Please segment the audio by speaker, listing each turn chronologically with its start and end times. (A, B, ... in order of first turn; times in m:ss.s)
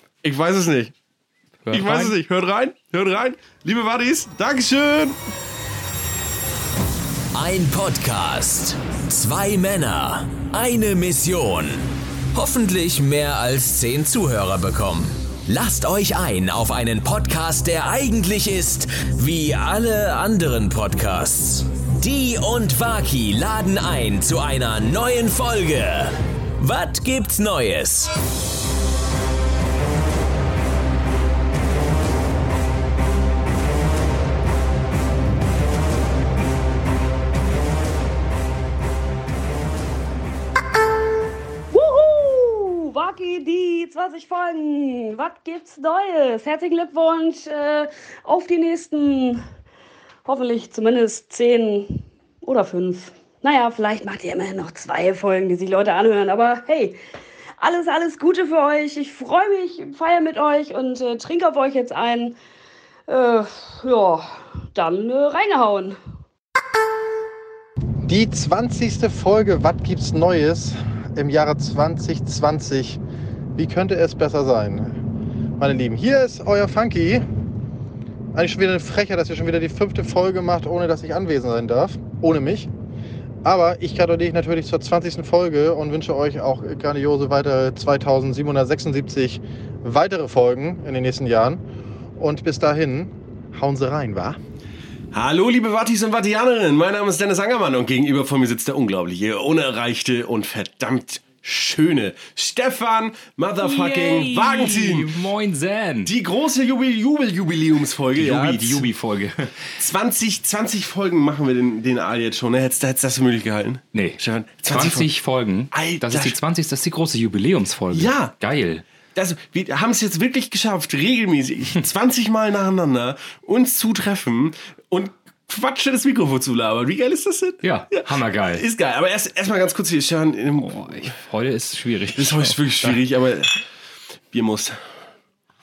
0:00.2-0:00.9 A
0:01.6-0:02.2 B
0:01.7-0:05.2 A
0:07.3-0:28.1 C
0:41.7-0:49.4 D
0:50.2-0:57.0 D
0:57.6-1:02.3 D
1:03.1-1:06.0 D
1:08.0-1:13.0 E
1:13.6-1:15.0 E
1:15.6-1:17.2 E
1:18.3-1:22.7 E
1:23.4-1:31.6 E
1:32.2-1:34.4 E
1:35.1-1:45.1 A
1:43.6-1:46.1 B
1:46.0-1:48.8 A
1:48.2-1:49.7 B
1:49.8-1:55.1 A
1:53.9-1:58.8 B
1:55.7-1:56.4 A
1:57.9-1:58.3 A
1:59.1-2:11.1 A
2:07.6-2:08.6 B
2:10.6-2:13.0 B
2:12.2-2:13.6 A
2:14.3-2:14.8 A